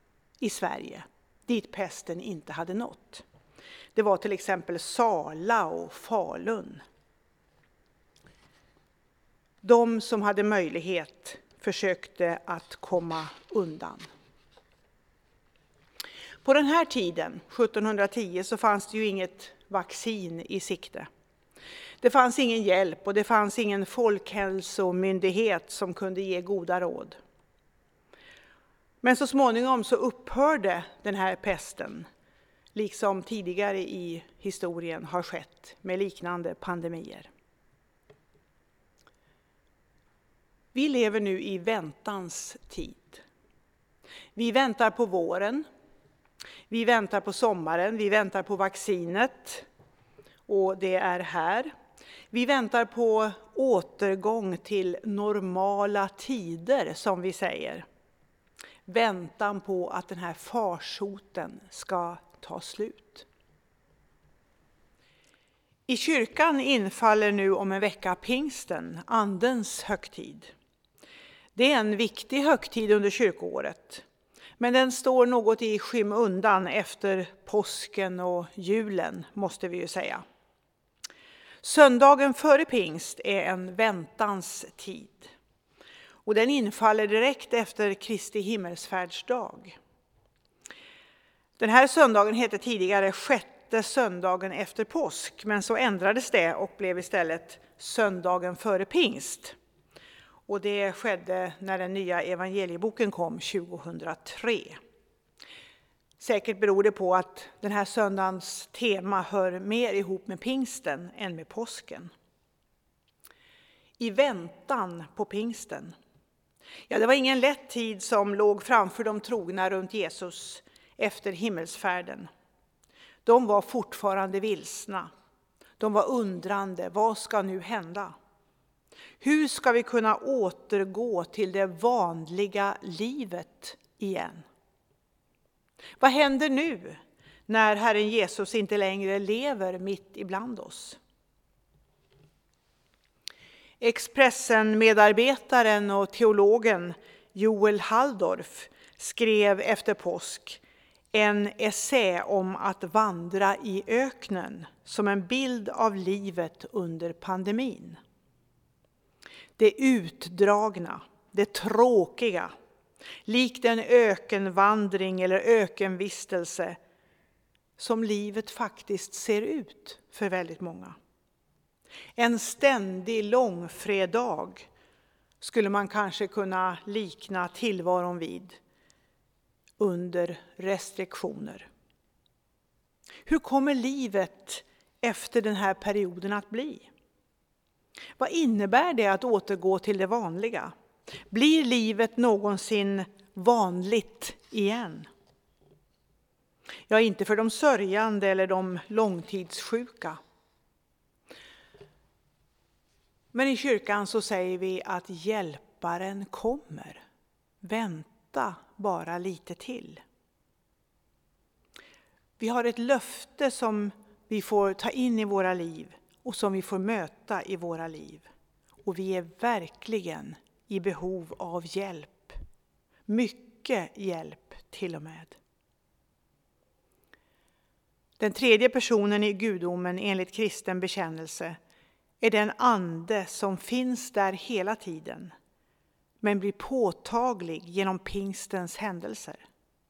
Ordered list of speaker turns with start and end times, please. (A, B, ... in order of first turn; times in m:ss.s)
0:00.4-0:03.2 A
0:03.9-0:06.8 A
0:09.6-0:14.1 A
0:16.4-0:21.1 A
0:22.0-0:27.2 A
0:29.0-0:32.1 A
0:32.7-0:37.3 A
0:40.7-0:43.2 A
0:44.3-0:45.6 A
0:46.7-0:49.6 A
0:50.5-0:51.7 A
0:52.3-0:57.8 A
0:58.9-1:03.3 A
1:05.9-1:10.5 A
1:11.5-1:14.0 A
1:14.6-1:20.2 A
1:21.6-1:25.3 A
1:26.2-1:29.8 A
1:31.6-1:39.6 A
1:40.5-1:44.8 A
1:46.2-1:52.1 A
1:54.0-1:55.9 A
1:56.9-2:02.3 A
2:03.2-2:05.1 A
2:05.8-2:08.1 A
2:09.2-2:14.4 A
2:16.0-2:21.0 A
2:23.8-2:30.6 A
2:31.1-2:38.0 A
2:39.6-2:42.5 A
2:43.2-2:46.8 A
2:47.8-2:51.0 A
2:52.2-2:54.7 A
2:55.4-2:58.6 A
2:59.8-3:01.7 A
3:03.2-3:06.9 A
3:08.2-3:10.7 A
3:11.3-3:15.1 A
3:16.9-3:20.2 A
3:23.3-3:27.0 A
3:27.6-3:30.0 A
3:32.4-3:38.3 A
3:38.8-3:42.4 A
3:43.1-3:45.4 A
3:48.2-3:51.6 A
3:52.2-3:55.3 A
3:56.2-3:59.4 A